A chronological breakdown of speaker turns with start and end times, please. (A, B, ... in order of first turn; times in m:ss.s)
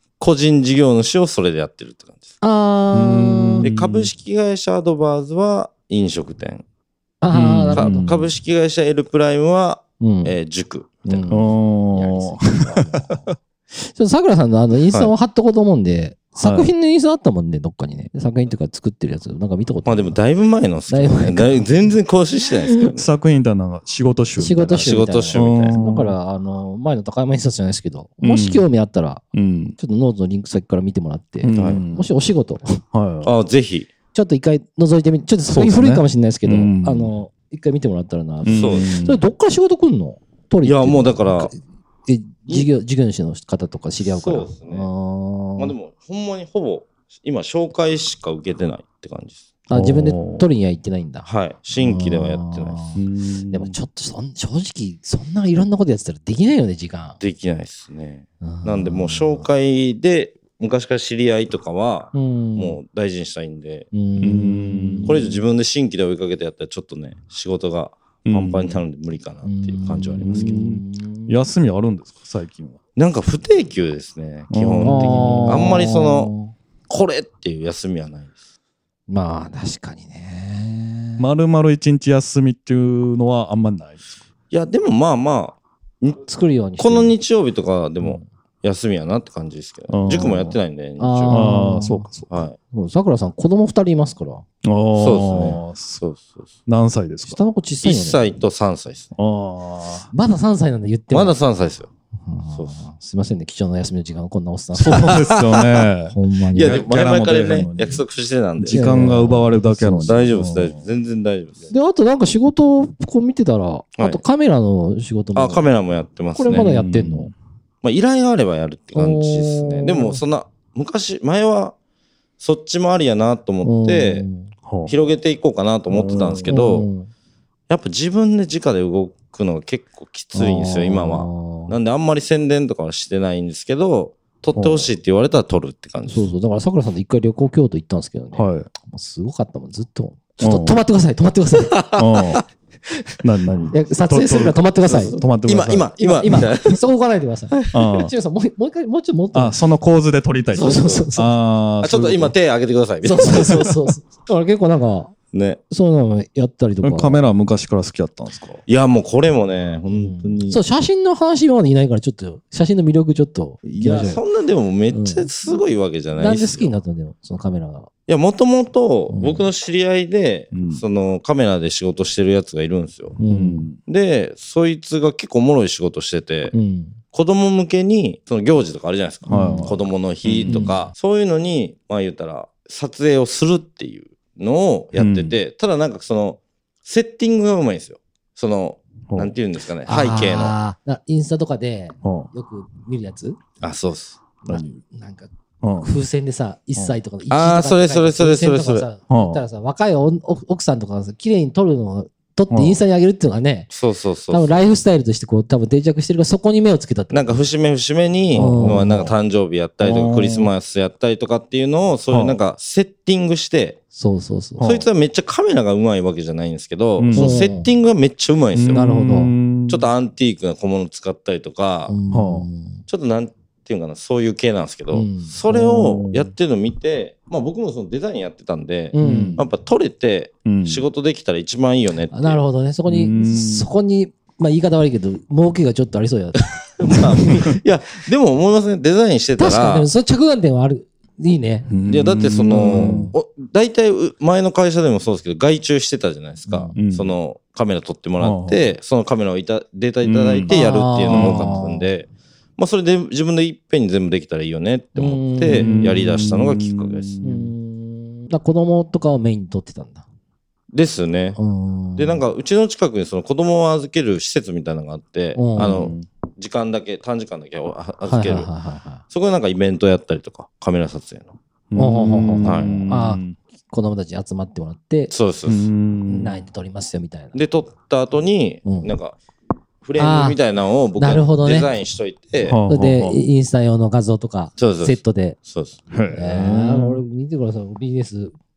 0:00.2-0:02.3 A
0:02.4-0:03.7 B
0:02.9-0:04.1 C
0:03.6-0:06.6 A
0:07.2-0:08.1 B
0:07.3-0:08.3 C
0:07.7-0:11.2 A
0:10.0-0:10.3 B
0:11.0-0:20.2 B
0:11.3-0:13.3 C
0:16.4-0:16.7 C
0:19.8-0:23.1 A
0:20.9-0:21.8 B
0:22.9-0:26.1 C
0:24.4-0:29.2 B
0:24.8-0:25.8 A
0:28.2-0:28.6 C
0:29.3-0:29.8 C
0:29.8-0:32.8 B
0:31.4-0:32.1 C
0:31.5-0:31.8 A
0:32.9-0:33.3 C
0:33.2-0:33.9 A
0:34.1-0:45.7 B
0:35.5-0:37.1 C
0:38.4-0:39.2 C
0:38.4-0:39.0 A
0:40.6-0:41.5 A
0:44.0-0:44.9 A
0:45.6-0:49.4 A
0:49.7-0:57.2 B
0:49.7-0:50.4 C
0:51.2-0:53.0 A
0:53.0-0:53.7 C
0:57.2-1:03.9 A
0:58.4-0:59.5 B
1:02.1-1:02.8 B
1:03.9-1:05.4 B
1:04.2-1:05.2 C
1:05.0-1:10.6 A
1:08.2-1:08.8 C
1:09.4-1:11.4 B
1:10.2-1:12.8 C
1:13.0-1:16.3 A
1:14.5-1:15.8 C
1:14.8-1:16.5 B
1:16.9-1:18.3 A
1:19.1-1:21.2 B
1:21.2-1:24.2 C
1:24.5-1:26.2 A
1:26.2-1:27.1 B
1:26.8-1:31.5 A
1:29.9-1:30.6 C
1:31.0-1:32.1 B
1:31.3-1:32.4 C
1:32.3-1:32.6 A
1:32.7-1:34.4 B
1:34.6-1:36.0 C
1:34.9-1:36.5 A
1:36.7-1:37.4 C
1:37.2-1:38.3 B
1:37.8-1:39.1 A
1:39.2-1:40.1 C
1:40.1-1:41.4 B
1:41.1-1:41.9 A
1:42.2-1:45.3 B
1:42.5-1:42.8 A
1:44.7-1:48.0 C
1:45.0-1:45.7 A
1:46.1-1:46.8 B
1:46.5-1:49.1 A
1:48.6-1:50.8 C
1:48.7-1:50.3 B
1:50.0-1:51.7 A
1:51.7-1:55.6 B
1:55.3-1:56.7 A
1:56.4-1:57.3 B
1:56.5-1:57.3 C
1:57.8-2:01.7 A
1:58.9-2:00.2 B
2:02.4-2:04.2 A
2:03.6-2:04.5 B
2:04.6-2:04.9 C
2:04.8-2:06.9 A
2:05.9-2:06.6 C
2:06.4-2:07.1 B
2:07.7-2:16.3 A
2:10.3-2:11.7 B
2:14.5-2:14.9 C
2:16.1-2:21.8 B
2:18.3-2:18.7 C
2:20.4-2:20.8 C
2:21.6-2:22.4 A
2:22.0-2:22.4 C
2:23.2-2:25.9 C
2:23.7-2:25.2 B
2:24.8-2:26.8 A
2:26.0-2:29.6 B
2:27.7-2:28.1 C
2:29.3-2:32.3 C
2:30.5-2:31.3 B
2:30.6-2:31.1 A
2:31.8-2:33.7 A
2:33.0-2:35.1 B
2:35.3-2:35.6 A
2:35.7-2:37.2 B
2:36.8-2:38.6 C
2:38.7-2:40.6 A
2:39.9-2:44.2 B
2:43.8-2:46.7 A
2:44.9-2:45.3 B
2:46.2-2:47.9 B
2:48.1-2:53.2 A
2:49.1-2:49.4 B
2:50.5-2:50.8 C
2:53.2-2:53.7 B
2:53.3-2:53.8 C
2:53.8-2:56.5 A
2:56.5-2:57.0 B
2:57.1-3:10.6 A
2:59.3-2:59.7 B
2:59.3-3:00.7 C
3:00.4-3:00.8 B
3:05.0-3:05.3 C
3:09.1-3:09.3 C
3:09.8-3:13.4 B
3:12.0-3:12.3 C
3:13.6-3:14.2 A
3:14.4-3:14.8 C
3:14.5-3:15.3 B
3:15.6-3:15.9 C
3:15.8-3:23.7 B
3:17.3-3:18.8 A
3:19.1-3:19.4 C
3:22.5-3:22.8 C
3:23.7-3:24.6 A
3:24.3-3:27.4 B
3:27.1-3:33.8 A
3:28.3-3:29.1 C
3:28.3-3:29.1 B
3:29.8-3:30.5 C
3:32.1-3:32.4 C
3:33.9-3:34.7 B
3:34.6-3:34.9 C
3:34.6-3:38.9 A
3:37.0-3:37.5 C
3:37.1-3:37.7 B
3:38.5-3:39.9 C
3:38.7-3:39.3 B
3:39.7-3:41.9 A
3:41.9-3:42.8 B
3:42.1-3:42.4 C
3:42.9-3:52.4 A
3:44.9-3:45.3 B
3:45.5-3:46.3 C
3:48.9-3:49.4 B
3:49.0-3:49.4 C
3:50.4-3:50.8 C
3:52.1-3:57.5 B
3:52.9-3:53.7 C
3:56.8-3:59.9 A
3:59.4-4:01.7 B
4:01.7-4:03.1 C
4:01.9-4:17.2 A
4:02.5-4:03.1 B
4:06.4-4:06.8 B
4:06.7-4:07.1 C
4:08.2-4:08.6 C
4:10.0-4:11.7 C
4:10.5-4:11.9 B
4:15.0-4:15.8 B
4:15.4-4:17.5 C
4:17.2-4:20.0 B
4:20.7-4:21.4 A
4:21.4-4:22.2 B
4:22.0-4:28.5 A
4:25.3-4:25.9 B
4:25.6-4:26.0 C
4:28.0-4:29.0 B
4:29.1-4:31.3 A
4:31.7-4:33.4 C
4:31.8-4:35.1 B
4:32.4-4:32.8 A
4:35.1-4:35.7 A
4:35.4-4:36.4 C
4:36.1-4:37.4 B
4:37.3-4:39.2 A
4:38.6-4:38.9 B
4:39.8-4:42.6 A
4:40.0-4:40.4 B
4:41.0-4:41.7 B
4:42.4-4:43.2 C
4:42.7-4:45.4 B
4:44.6-4:45.8 A
4:45.9-4:47.0 C
4:46.1-4:48.3 B